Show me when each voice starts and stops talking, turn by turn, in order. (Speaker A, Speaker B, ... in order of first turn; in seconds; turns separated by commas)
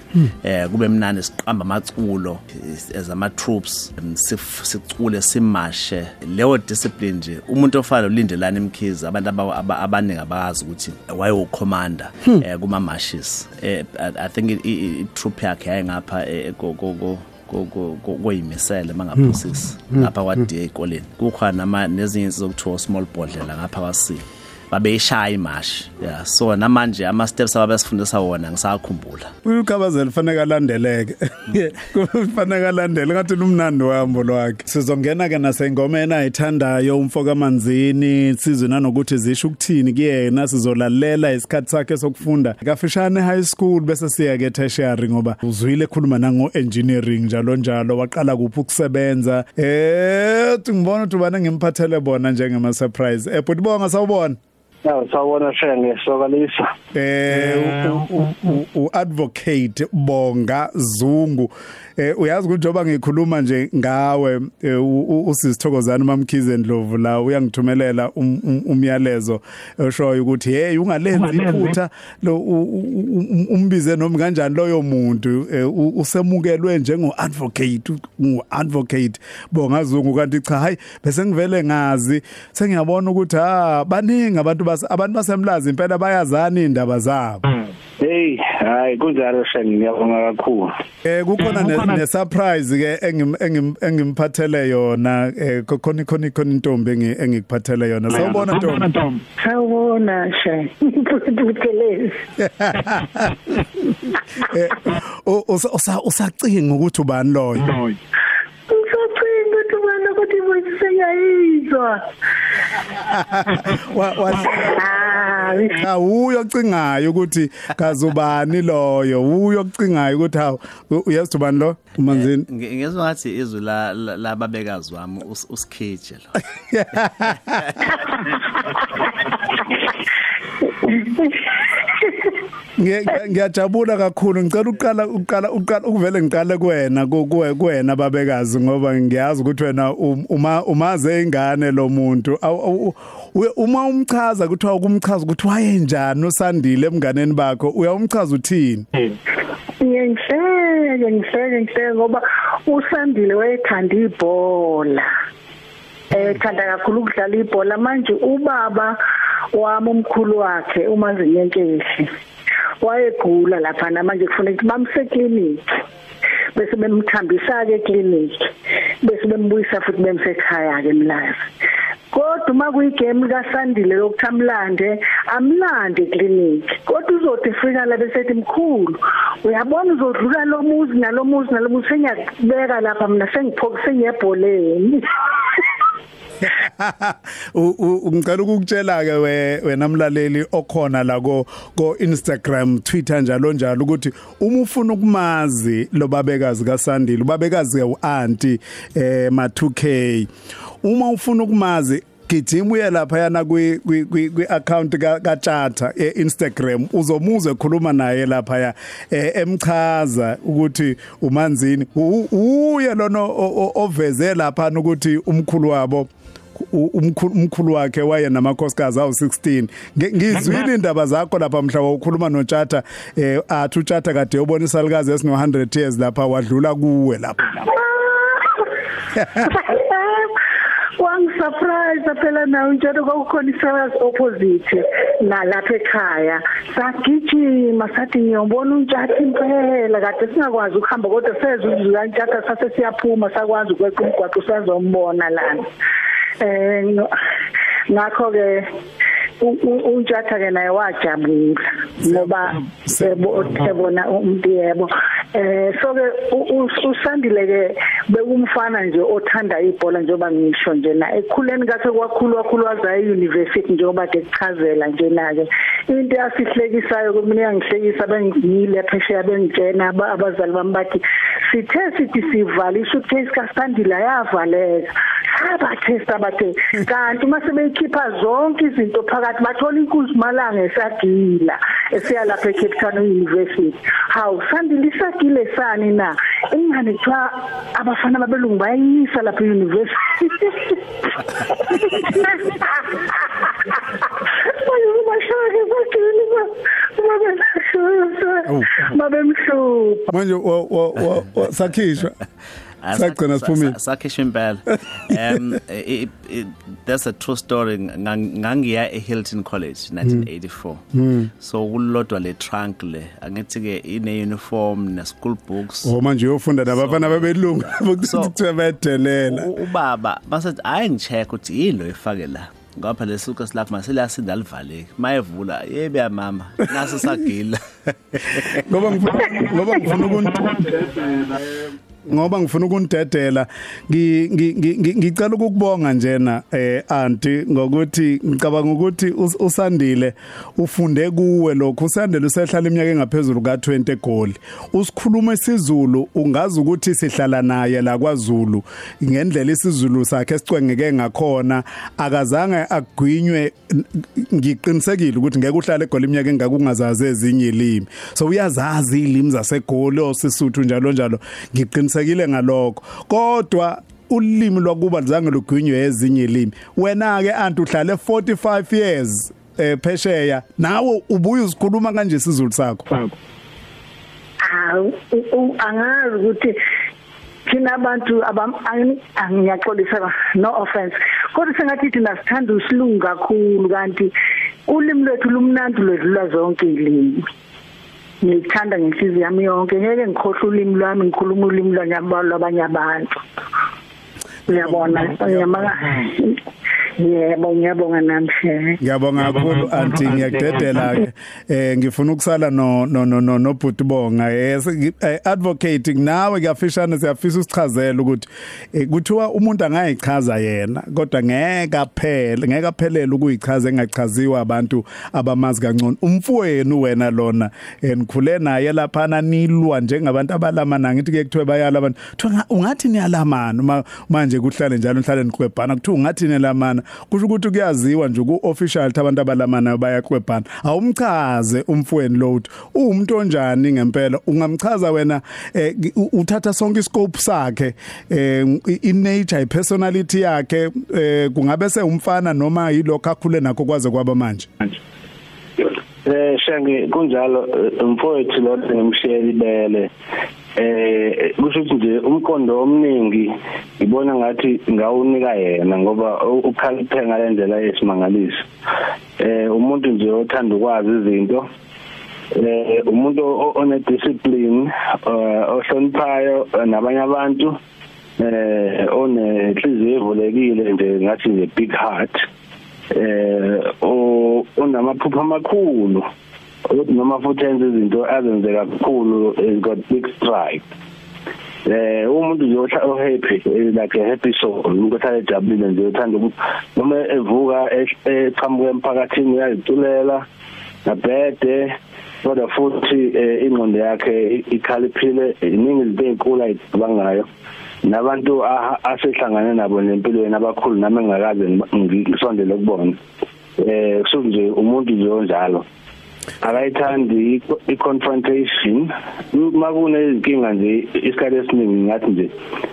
Speaker A: 0.3-29.3, Speaker B: 29.4-54.4, Speaker C: 54.9-56.7, Speaker B: 56.9-87.6, Speaker C: 88.0-90.7, Speaker B: 91.0-99.2, Speaker D: 99.4-102.2, Speaker B: 102.4-107.9, Speaker D: 108.7-112.0, Speaker B: 113.0-122.5, Speaker D: 114.5-115.8, Speaker A: 122.1-126.4, Speaker B: 126.7-127.9, Speaker A: 127.0-127.9, Speaker D: 130.8-132.1, Speaker B: 132.8-149.0, Speaker D: 149.8-155.1, Speaker D: 156.1-159.0, Speaker D: 159.5-162.1, Speaker D: 162.8-165.6, Speaker D: 166.6-171.5, Speaker D: 172.1-185.7, Speaker B: 186.5-200.3, Speaker B: 200.8-227.7, Speaker D: 227.6-228.8, Speaker B: 229.1-229.5, Speaker D: 229.4-230.4, Speaker D: 230.9-245.7, Speaker D: 246.4-247.1, Speaker D: 247.9-248.7, Speaker D: 249.4-300.1, Speaker B: 252.0-252.3, Speaker B: 252.8-253.5, Speaker B: 298.5-298.8, Speaker B: 300.1-302.1, Speaker A: 302.8-310.8, Speaker B: 302.9-303.8, Speaker B: 305.1-305.4, Speaker B: 310.9-311.3, Speaker A: 311.4-315.9, Speaker B: 315.8-319.5, Speaker A: 316.7-318.4, Speaker A: 319.3-328.6, Speaker B: 328.4-373.1, Speaker D: 374.4-376.6, Speaker D: 377.4-384.1, Speaker D: 384.6-387.3, Speaker D: 388.2-393.2, Speaker B: 394.5-395.7, Speaker D: 394.5-396.4, Speaker D: 397.0-398.8, Speaker B: 398.8-444.7, Speaker C: 446.1-449.9, Speaker C: 450.6-458.4, Speaker C: 459.2-461.5, Speaker C: 462.4-467.6, Speaker C: 468.2-472.2, Speaker C: 472.9-476.1, Speaker C: 476.7-480.6, Speaker C: 481.6-490.2, Speaker C: 490.9-497.3, Speaker C: 497.9-503.0, Speaker C: 503.6-505.6, Speaker C: 506.4-512.3